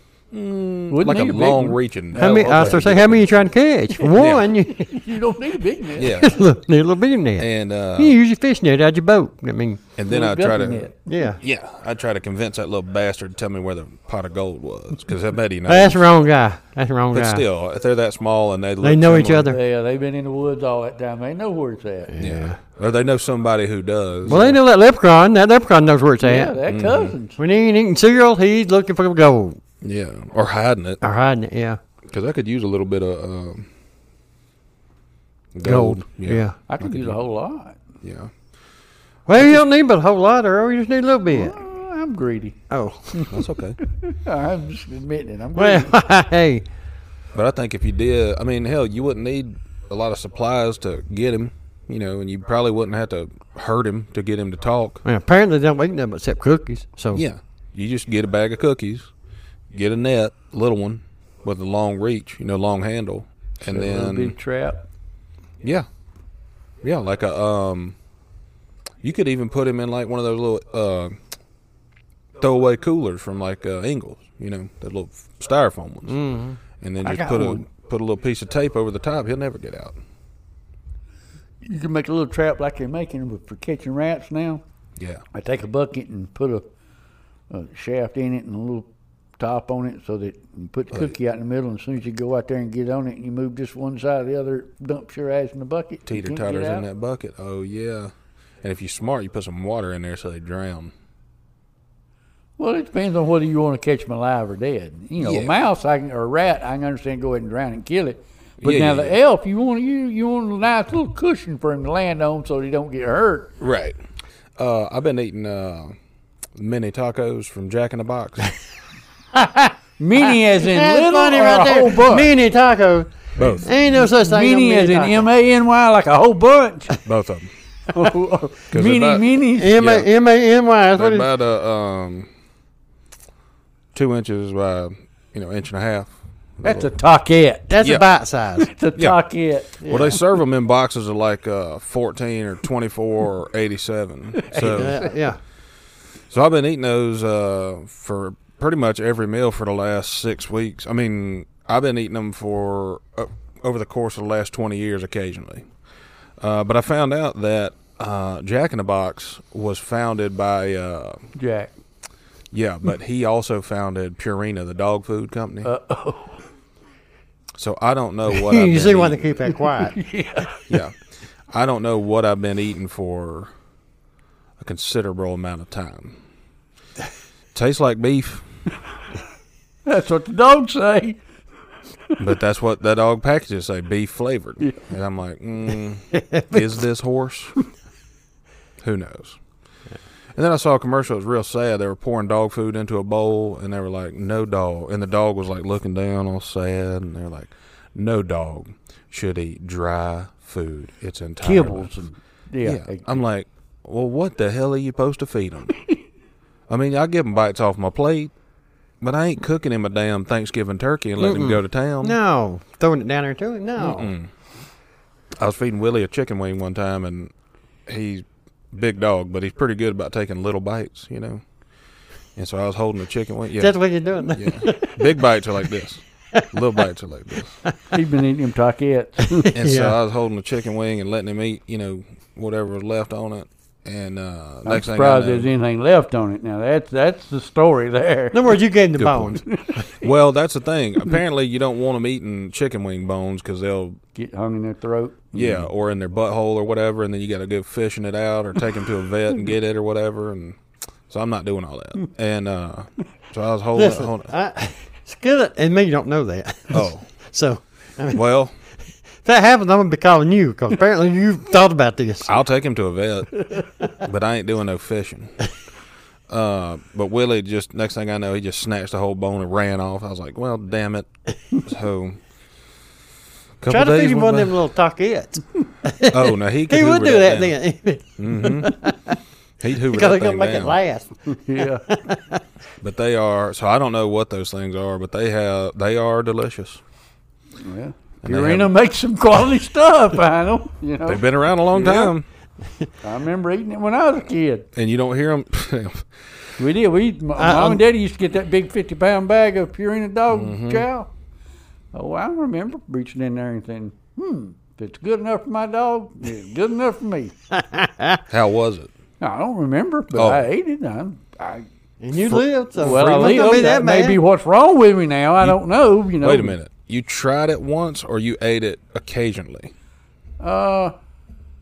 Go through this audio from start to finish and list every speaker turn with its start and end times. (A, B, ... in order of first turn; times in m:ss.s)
0:00.3-0:03.5 A
0:00.9-0:02.8 B
0:02.1-0:05.0 C
0:04.1-0:04.4 A
0:04.7-0:06.1 B
0:06.0-0:06.4 A
0:06.0-0:09.8 C
0:07.4-0:08.1 A
0:10.0-0:16.0 A
0:10.1-0:11.1 B
0:11.1-0:11.4 C
0:15.7-0:17.4 C
0:17.1-0:19.5 A
0:18.8-0:19.6 C
0:19.4-0:22.1 B
0:22.1-0:22.6 C
0:22.2-0:24.6 A
0:24.2-0:26.6 C
0:26.2-0:27.4 B
0:26.6-0:27.1 A
0:27.4-0:29.6 C
0:29.8-0:31.0 A
0:31.0-0:31.8 C
0:32.0-0:33.7 A
0:35.5-0:37.2 A
0:35.6-0:36.6 C
0:36.7-0:37.8 B
0:38.0-0:38.3 A
0:39.3-0:41.6 C
0:41.3-0:42.6 B
0:42.7-0:43.3 C
0:43.1-0:46.0 B
0:43.3-0:43.8 A
0:45.5-0:46.6 C
0:47.3-0:55.0 A
0:55.0-0:57.2 C
0:57.1-0:59.1 A
0:59.7-1:04.4 A
1:03.6-1:04.8 B
1:06.8-1:08.0 A
1:09.0-1:11.1 A
1:12.4-1:16.2 A
1:16.0-1:16.6 C
1:16.8-1:20.0 A
1:17.0-1:17.6 B
1:21.6-1:24.6 B
1:25.0-1:25.2 A
1:25.3-1:26.6 B
1:27.5-1:28.9 B
1:29.4-1:36.8 B
1:36.1-1:38.1 A
1:38.6-1:40.9 A
1:42.6-1:53.5 B
1:45.2-1:45.5 A
1:48.6-1:49.2 A
1:53.6-1:54.0 A
1:54.6-1:55.9 A
1:56.6-1:58.5 A
1:59.3-1:59.7 C
2:00.0-2:02.3 B
2:00.6-2:05.3 C
2:03.4-2:03.7 A
2:03.9-2:07.0 B
2:07.0-2:07.5 A
2:07.9-2:09.8 B
2:08.7-2:10.1 A
2:09.5-2:11.3 C
2:11.0-2:12.3 A
2:13.9-2:16.9 A
2:16.6-2:17.8 B
2:17.7-2:18.7 C
2:18.6-2:19.8 B
2:19.8-2:20.2 C
2:19.8-2:25.0 A
2:24.4-2:25.1 B
2:24.5-2:25.4 C
2:26.3-2:35.7 A
2:36.4-2:41.2 A
2:41.3-2:41.7 B
2:42.5-2:45.7 A
2:45.6-2:46.4 B
2:47.6-2:49.2 A
2:48.3-2:50.0 C
2:49.8-2:50.6 B
2:50.7-2:51.0 A
2:51.5-2:53.5 A
2:54.6-2:56.2 A
2:57.5-2:58.4 A
2:59.8-3:01.2 B
3:02.2-3:07.6 A
3:06.2-3:06.5 C
3:08.8-3:09.4 A
3:10.4-3:21.9 A
3:21.4-3:23.2 B
3:22.6-3:25.8 A
3:26.7-3:28.3 A
3:29.0-3:32.2 A
3:31.2-3:34.1 C
3:33.8-3:34.3 A
3:35.4-3:37.3 A
3:37.9-3:41.4 A
3:42.4-3:43.7 A
3:43.6-3:45.5 C
3:44.3-3:47.5 A
3:47.9-3:49.5 B
3:49.2-3:50.0 C
3:49.5-3:55.5 A
3:54.6-3:58.5 B
3:58.3-3:59.4 C
3:59.0-4:04.0 A
3:59.4-4:00.0 B
4:04.1-4:05.7 B
4:05.3-4:10.6 A
4:11.1-4:14.3 A
4:13.7-4:18.2 C
4:16.7-4:17.1 A
4:18.1-4:18.5 A
4:19.2-4:22.3 C
4:22.2-4:25.3 A
4:26.3-4:32.2 A
4:33.6-4:34.6 A
4:33.7-4:39.2 C
4:36.1-4:37.6 A
4:38.2-4:38.8 A
4:39.6-4:40.8 A
4:39.9-4:42.4 C
4:41.3-4:41.9 B
4:42.8-4:46.8 A
4:47.6-4:51.2 B
4:48.2-4:48.7 A
4:51.0-4:52.2 A
4:53.0-4:54.6 B
4:54.7-4:56.2 A
4:56.6-5:01.1 B
4:57.4-4:57.8 C
5:00.3-5:00.9 A
5:01.9-5:07.3 B
5:07.5-5:08.2 C
5:08.3-5:08.9 A
5:09.2-5:11.6 B
5:10.1-5:10.4 A
5:12.0-5:14.2 C
5:12.8-5:16.5 B
5:16.2-5:19.7 A
5:20.4-5:20.9 B